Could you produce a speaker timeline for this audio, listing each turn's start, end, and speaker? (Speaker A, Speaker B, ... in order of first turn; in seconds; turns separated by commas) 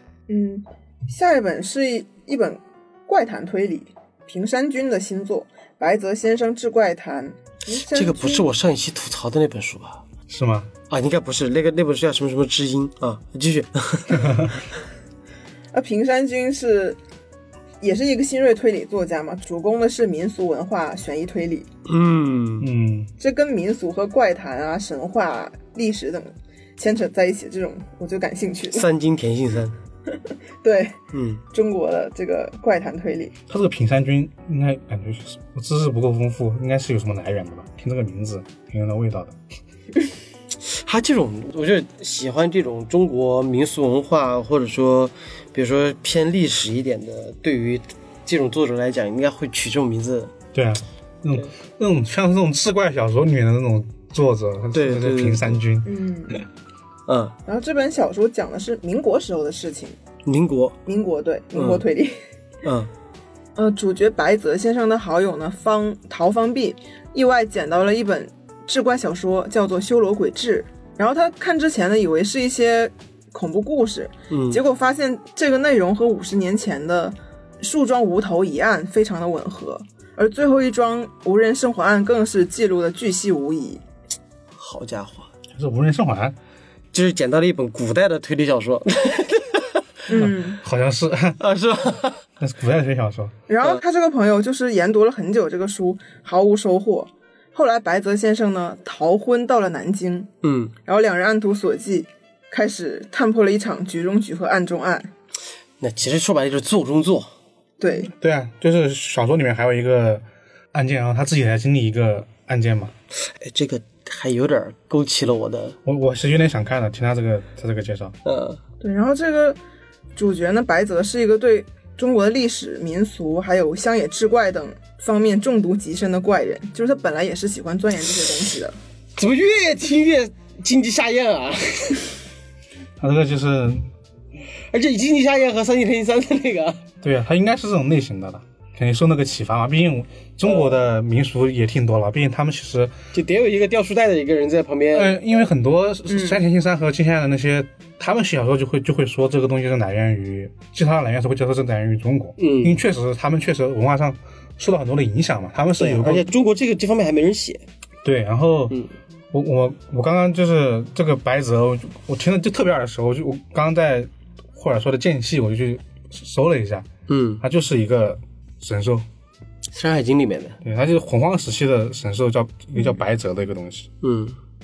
Speaker A: 0.3-8.5, Speaker B: 7.8-10.0, Speaker C: 10.3-10.7, Speaker B: 10.9-14.4, Speaker A: 15.7-17.0, Speaker A: 17.8-21.6, Speaker B: 21.9-22.7, Speaker C: 22.6-23.1, Speaker A: 23.2-28.9, Speaker B: 28.7-29.7, Speaker A: 30.6-31.0, Speaker B: 31.1-31.4, Speaker A: 31.5-33.3, Speaker C: 33.5-39.4, Speaker B: 40.6-50.3, Speaker C: 50.5-55.9, Speaker B: 54.7-55.6, Speaker A: 55.8-56.4, Speaker B: 57.1-57.3, Speaker A: 57.5-60.0, Speaker B: 60.2-60.8, Speaker A: 60.9-62.2, Speaker B: 61.5-61.8, Speaker B: 62.6-62.9, Speaker A: 63.5-83.8, Speaker B: 74.3-74.6, Speaker B: 84.5-85.3, Speaker C: 85.5-86.3, Speaker B: 86.9-89.8, Speaker A: 90.1-90.6, Speaker C: 90.1-91.4, Speaker B: 91.4-92.2, Speaker C: 92.4-93.3, Speaker A: 93.5-100.3, Speaker B: 100.4-100.7, Speaker A: 100.8-105.1, Speaker B: 105.8-107.3, Speaker A: 107.8-108.1, Speaker C: 108.2-112.9, Speaker B: 113.2-115.8, Speaker C: 115.8-118.1, Speaker B: 118.2-118.6, Speaker A: 118.8-119.6, Speaker A: 120.2-128.8, Speaker B: 129.2-132.0, Speaker C: 133.0-133.9, Speaker B: 134.7-136.8, Speaker C: 137.0-142.9, Speaker B: 143.1-145.2, Speaker C: 144.9-156.3, Speaker A: 146.1-146.4, Speaker B: 152.4-152.8, Speaker B: 155.8-157.6, Speaker C: 158.0-158.8, Speaker C: 159.3-166.8, Speaker B: 167.1-167.4, Speaker C: 167.4-169.1, Speaker B: 169.7-170.6, Speaker C: 170.6-173.9, Speaker B: 174.0-174.4